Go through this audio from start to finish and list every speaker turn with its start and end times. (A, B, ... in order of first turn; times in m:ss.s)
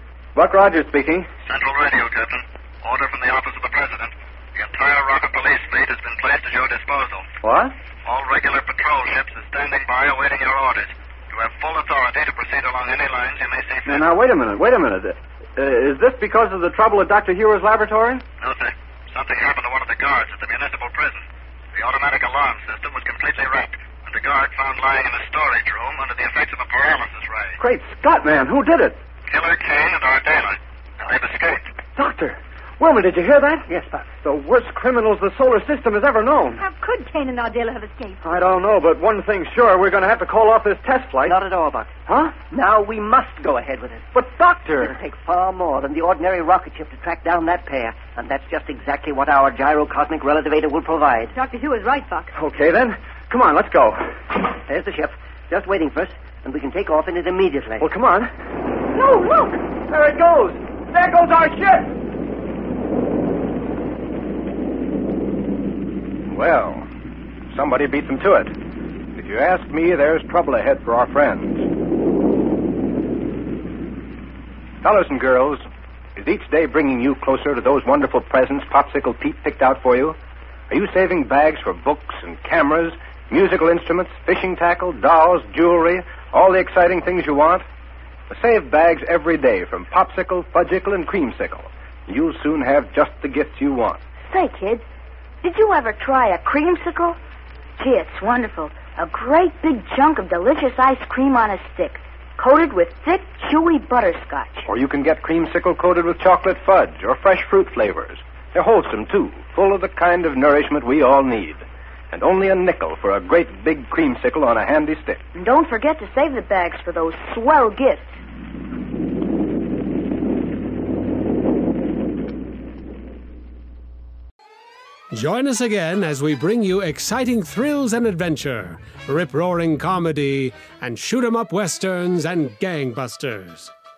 0:00.3-0:01.3 A
0:01.4-0:07.2 B
0:07.4-0:07.7 A
0:08.0-0:14.1 B
0:13.8-0:18.2 A
0:18.4-0:21.2 B
0:21.7-0:27.6 B
0:27.6-0:29.0 A
0:29.3-0:31.7 B
0:31.9-0:36.6 A
0:33.7-0:34.1 C
0:36.6-0:38.2 D
0:38.2-0:41.4 A
0:41.3-0:41.9 C
0:42.1-0:42.4 A
0:42.4-0:44.0 C
0:44.1-0:45.0 A
0:44.9-0:51.3 C
0:51.3-0:52.3 D
0:52.3-0:54.0 A
0:54.7-0:57.8 C
0:57.8-0:58.3 A
0:58.9-0:59.6 D
0:59.9-1:01.9 A
1:06.3-1:06.8 E
1:07.5-1:08.5 E
1:09.1-1:11.6 E
1:14.8-1:15.6 E
1:16.2-1:20.2 E
1:20.7-1:27.6 E
1:28.3-1:34.0 E
1:34.3-1:34.8 F
1:35.4-1:37.2 F
1:37.8-1:44.7 F
1:44.7-1:55.2 E
1:55.3-1:58.2 F
2:05.1-2:13.7 G